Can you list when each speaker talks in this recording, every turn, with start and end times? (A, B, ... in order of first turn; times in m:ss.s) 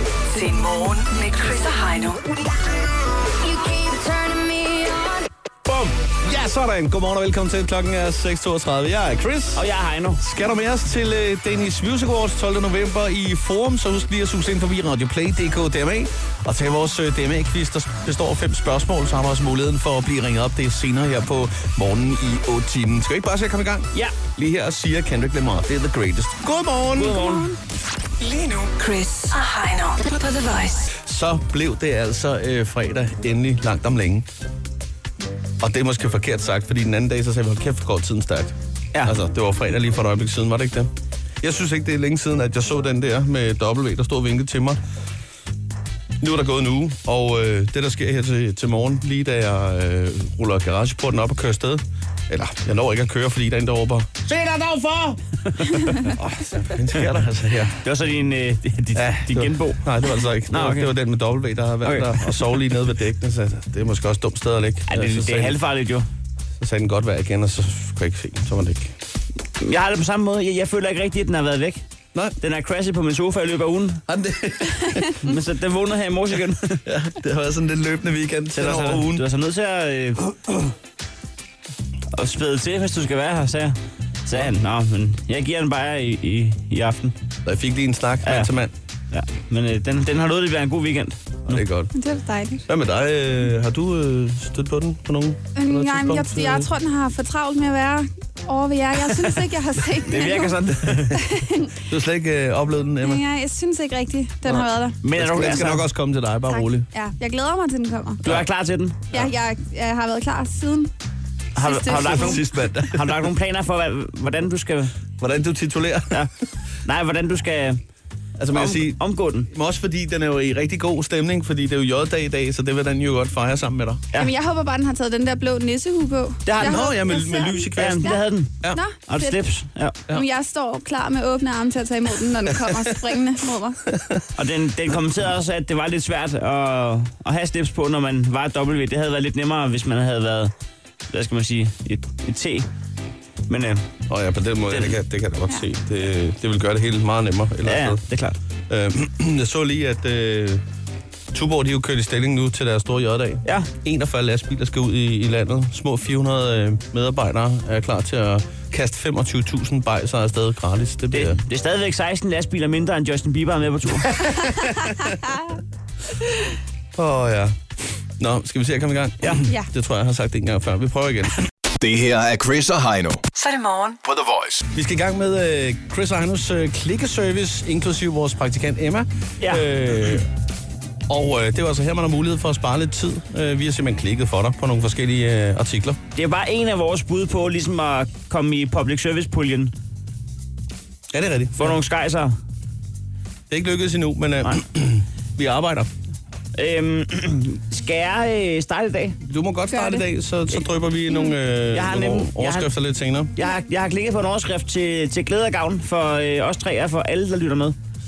0:00.3-0:02.2 A
0:03.3-0:05.2 B
0:05.7-0:05.9 C
0:06.2-0:09.6 D
0:09.5-0:10.2 C
0:10.2-0:27.2 D
0:27.0-0:27.5 C
0:27.1-0:27.6 E
0:28.2-0:30.9 A
0:30.9-0:34.3 D
0:35.6-0:40.9 D
0:41.4-0:44.8 D
0:46.2-0:55.2 D
0:55.5-0:56.1 C
0:56.1-0:57.7 D
0:57.7-0:59.8 C
0:58.9-1:05.6 D
1:00.5-1:00.9 C
1:01.8-1:02.6 C
1:04.9-1:06.0 C
1:06.6-1:08.9 D
1:09.6-1:11.8 C
1:12.4-1:14.0 C
1:14.1-1:15.2 D
1:15.2-1:16.8 C
1:16.8-1:19.2 D
1:18.6-1:20.3 C
1:22.1-1:27.1 C
1:27.4-1:28.7 D
1:28.2-1:28.5 C
1:29.1-1:31.6 C
1:31.5-1:31.9 D
1:31.9-1:32.6 E
1:32.7-1:36.7 D
1:35.6-1:40.6 E
1:40.0-1:41.2 C
1:41.1-1:41.8 E
1:41.9-1:43.2 D
1:43.0-1:45.0 E
1:44.4-1:46.9 D
1:45.0-1:45.8 C
1:46.5-1:48.2 E
1:48.2-1:49.0 C
1:49.1-1:50.9 E
1:51.6-1:54.9 C
1:51.6-1:52.4 E
1:52.0-1:53.3 D
1:55.2-1:56.2 D
1:56.8-1:57.8 C
1:58.4-2:04.0 D
1:58.5-1:59.5 C
2:04.2-2:09.4 E
2:06.4-2:06.8 C
2:06.6-2:08.8 D
2:07.8-2:10.0 C
2:10.1-2:13.8 E
2:13.9-2:14.2 D
2:14.3-2:20.5 C
2:21.1-2:22.7 C
2:23.5-2:23.9 C
2:24.1-2:28.0 D
2:27.6-2:28.4 C
2:28.7-2:30.6 D
2:31.3-2:41.4 D
2:41.1-2:44.1 C
2:44.1-2:45.2 D
2:46.9-2:47.6 D
2:48.2-2:51.3 D
2:51.8-2:53.2 F
2:53.3-2:54.0 A
2:54.0-2:54.6 F
2:54.7-3:00.2 D
2:59.4-2:59.6 C
3:01.1-3:06.0 D
3:06.1-3:09.7 C
3:11.1-3:11.8 D
3:11.6-3:12.4 C
3:13.5-3:15.9 D
3:16.6-3:19.2 C
3:19.2-3:23.3 D
3:19.7-3:20.0 E
3:21.7-3:22.7 C
3:23.4-3:27.8 C